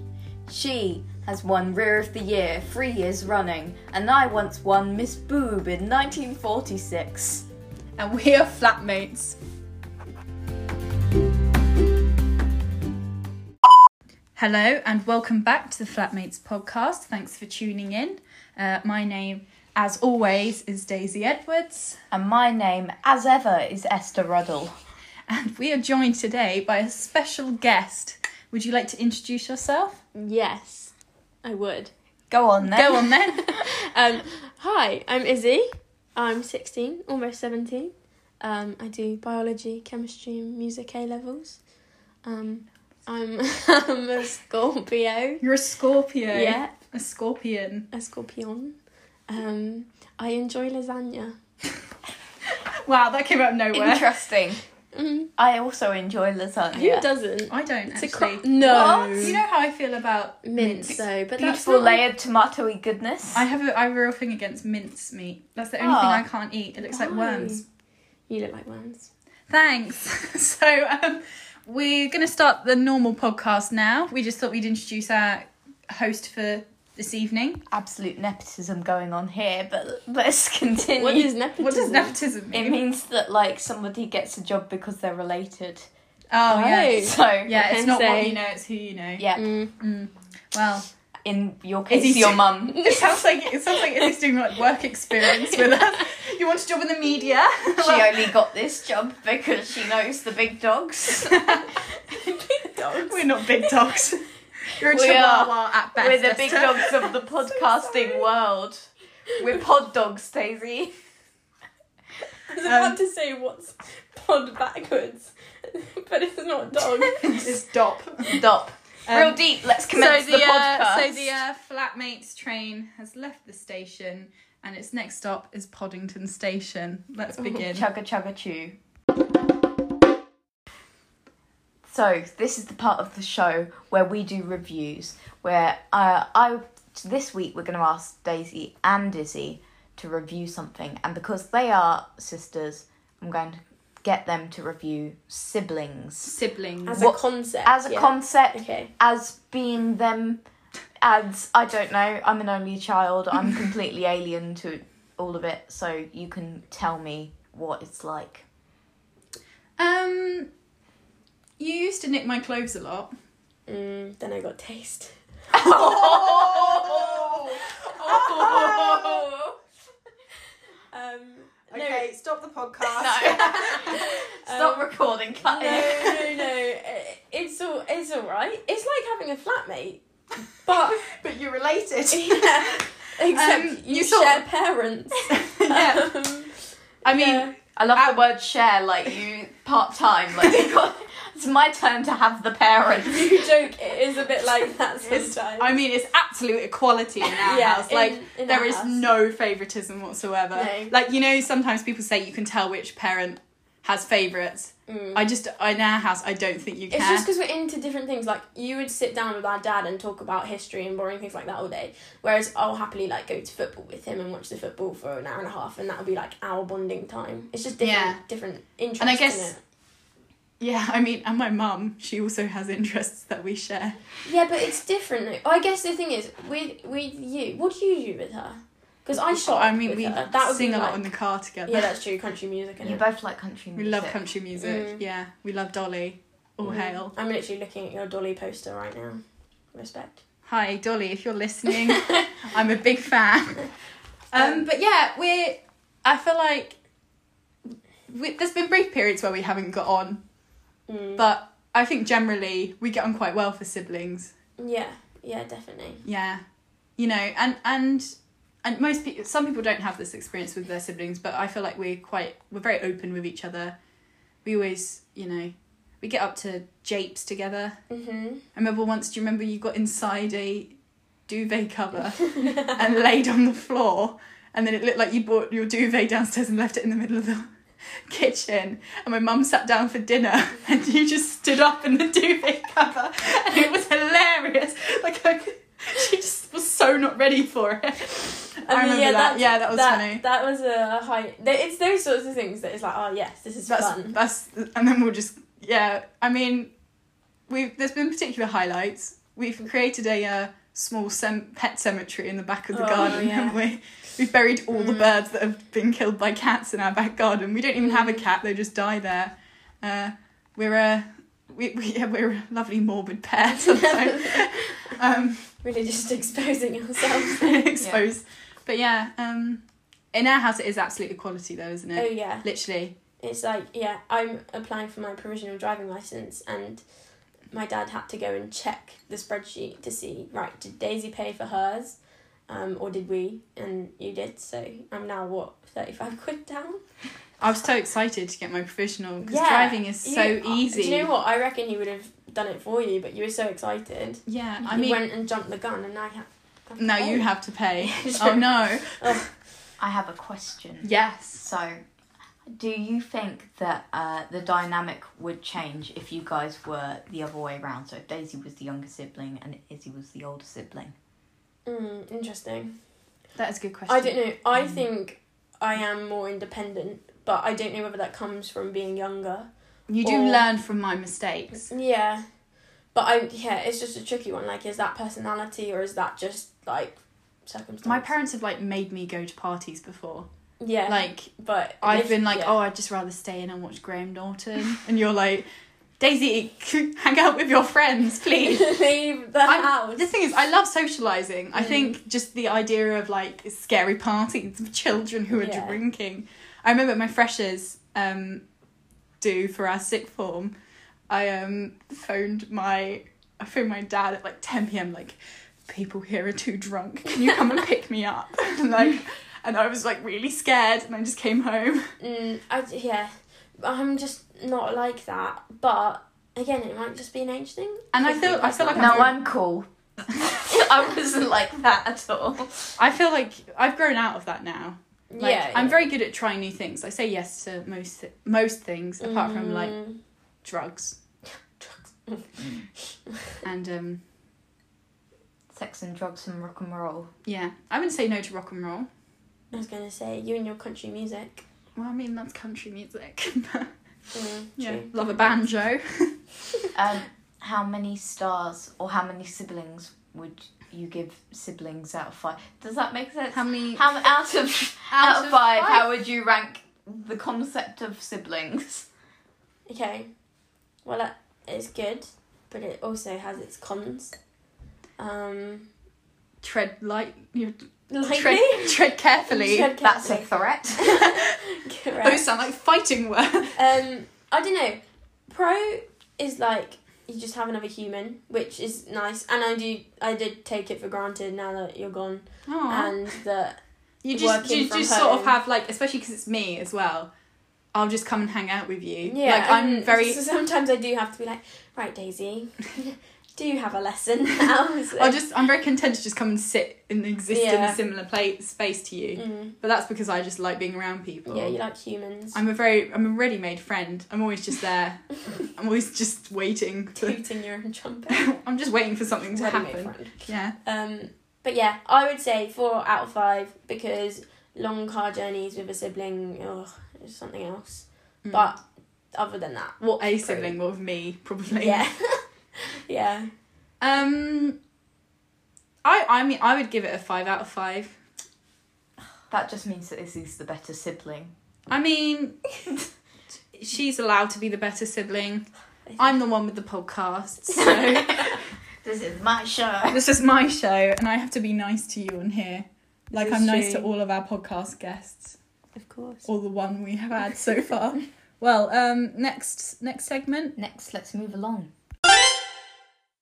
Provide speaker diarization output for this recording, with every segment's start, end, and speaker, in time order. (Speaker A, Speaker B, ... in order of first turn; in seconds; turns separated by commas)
Speaker A: 0.5-7.5, Speaker B: 8.0-9.4, Speaker B: 14.3-22.0, Speaker A: 22.1-24.7, Speaker B: 25.3-30.0, Speaker C: 30.1-30.9, Speaker C: 31.4-31.9, Speaker A: 32.3-33.1, Speaker B: 32.6-33.6, Speaker C: 33.3-41.6, Speaker C: 42.2-45.4, Speaker B: 45.4-47.9, Speaker C: 46.3-46.7, Speaker C: 47.9-51.4, Speaker B: 52.8-54.1, Speaker A: 53.7-54.6, Speaker C: 54.9-55.3, Speaker A: 55.4-57.0, Speaker C: 56.7-59.4, Speaker B: 57.5-61.0, Speaker A: 58.6-59.4, Speaker C: 60.4-62.0, Speaker A: 61.4-63.5, Speaker B: 63.3-67.6, Speaker A: 65.8-66.2, Speaker C: 66.8-67.6, Speaker C: 68.3-69.1, Speaker B: 69.5-77.6, Speaker A: 77.7-81.3, Speaker C: 81.0-82.2, Speaker B: 81.6-82.8, Speaker A: 82.5-85.9, Speaker B: 86.3-90.9, Speaker C: 86.5-88.4, Speaker A: 86.9-87.5, Speaker A: 89.2-89.4, Speaker C: 89.3-89.7, Speaker A: 91.2-92.8, Speaker B: 91.9-98.3, Speaker C: 92.7-94.1, Speaker C: 95.3-95.7, Speaker A: 97.8-101.5, Speaker B: 101.3-101.7, Speaker C: 102.1-103.9, Speaker B: 103.1-107.1, Speaker A: 104.9-110.9, Speaker C: 107.8-108.2, Speaker C: 112.5-117.6, Speaker B: 112.6-113.0, Speaker B: 117.2-118.4, Speaker A: 118.4-121.3, Speaker B: 119.1-127.9, Speaker A: 127.4-128.8, Speaker A: 131.9-146.3, Speaker B: 146.2-147.1, Speaker C: 146.8-148.9, Speaker A: 146.9-150.4, Speaker A: 151.0-158.4, Speaker B: 159.8-160.5, Speaker B: 161.6-163.1, Speaker C: 163.7-165.2, Speaker A: 165.5-169.6, Speaker B: 165.6-169.3, Speaker C: 170.9-172.1, Speaker B: 171.7-174.0, Speaker A: 172.9-176.2, Speaker C: 173.0-174.9, Speaker C: 175.4-181.0, Speaker B: 175.6-176.4, Speaker B: 181.1-184.4, Speaker C: 182.1-187.5, Speaker B: 185.3-186.1, Speaker B: 187.0-188.2, Speaker A: 187.8-193.4, Speaker C: 193.0-195.7, Speaker B: 195.1-207.3, Speaker C: 197.2-199.0, Speaker C: 200.5-200.9, Speaker C: 204.9-205.3, Speaker C: 206.9-219.6, Speaker B: 217.8-218.2, Speaker B: 219.0-219.5, Speaker B: 220.6-224.2, Speaker C: 224.2-231.1, Speaker B: 229.3-231.9, Speaker C: 231.6-233.0, Speaker A: 232.8-234.2, Speaker B: 233.8-237.1, Speaker C: 234.6-235.0, Speaker C: 236.6-239.2, Speaker C: 239.7-240.2, Speaker B: 240.4-243.7, Speaker B: 244.3-246.8, Speaker C: 244.4-244.6, Speaker B: 248.1-250.2, Speaker C: 250.9-251.2, Speaker B: 251.2-254.3, Speaker C: 254.6-256.0, Speaker B: 256.0-256.4, Speaker B: 257.0-263.8, Speaker B: 264.4-267.8, Speaker C: 267.9-268.4, Speaker B: 268.5-270.7, Speaker B: 271.3-277.5, Speaker B: 278.1-290.2, Speaker C: 288.6-294.2, Speaker B: 293.7-296.7, Speaker B: 297.5-315.5, Speaker C: 302.7-303.6, Speaker C: 304.7-305.1, Speaker C: 307.8-308.2, Speaker C: 313.6-314.9, Speaker C: 315.6-317.6, Speaker B: 317.3-322.9, Speaker C: 321.9-322.4, Speaker C: 323.2-326.9, Speaker C: 327.5-336.8, Speaker B: 337.4-341.1, Speaker C: 339.2-349.3, Speaker B: 344.3-345.0, Speaker B: 346.8-349.3, Speaker A: 349.8-351.8, Speaker B: 350.8-351.4, Speaker A: 352.4-360.9, Speaker C: 361.6-362.8, Speaker B: 363.4-364.8, Speaker C: 363.9-369.5, Speaker B: 369.9-371.7, Speaker C: 370.0-370.4, Speaker C: 371.5-372.3, Speaker C: 372.9-378.1, Speaker B: 377.8-380.3, Speaker C: 380.6-382.6, Speaker B: 380.9-385.5, Speaker B: 386.0-388.7, Speaker C: 388.3-390.0, Speaker B: 389.4-398.4, Speaker C: 391.5-391.9, Speaker C: 395.3-395.8, Speaker B: 399.2-400.5, Speaker B: 401.1-411.9, Speaker C: 412.0-419.1, Speaker B: 417.9-419.1, Speaker A: 418.7-422.7, Speaker B: 422.8-429.8, Speaker C: 425.1-425.9, Speaker C: 429.0-430.0, Speaker B: 430.4-431.0, Speaker C: 431.6-432.4, Speaker B: 433.4-434.0, Speaker A: 435.5-437.1, Speaker B: 437.2-438.9, Speaker C: 439.5-441.4, Speaker B: 441.8-443.7, Speaker C: 444.1-445.3, Speaker B: 444.6-446.2, Speaker A: 446.7-458.9, Speaker B: 453.3-453.9, Speaker B: 454.9-455.9, Speaker C: 459.7-460.1, Speaker C: 460.8-464.2, Speaker C: 465.0-465.7, Speaker B: 466.4-469.7, Speaker C: 467.9-472.2, Speaker A: 469.8-471.0, Speaker B: 471.0-471.3, Speaker B: 472.0-473.6, Speaker C: 473.6-483.6, Speaker B: 482.5-483.1, Speaker B: 484.0-487.1, Speaker C: 484.1-485.4, Speaker B: 487.7-490.2, Speaker C: 489.0-495.2, Speaker B: 495.0-501.6, Speaker C: 497.3-497.8, Speaker C: 499.1-499.5, Speaker C: 501.2-502.4, Speaker B: 502.3-507.2, Speaker C: 506.9-508.2, Speaker B: 508.1-510.5, Speaker C: 509.3-518.6, Speaker B: 518.2-518.5, Speaker C: 519.1-520.5, Speaker B: 519.8-521.9, Speaker C: 521.5-523.3, Speaker B: 523.8-524.6, Speaker B: 525.8-528.0, Speaker A: 529.3-531.3, Speaker B: 531.7-532.6, Speaker B: 533.5-538.4, Speaker A: 537.5-540.0, Speaker B: 539.9-545.4, Speaker C: 543.1-543.9, Speaker C: 545.8-546.2, Speaker B: 546.2-550.5, Speaker A: 550.6-551.7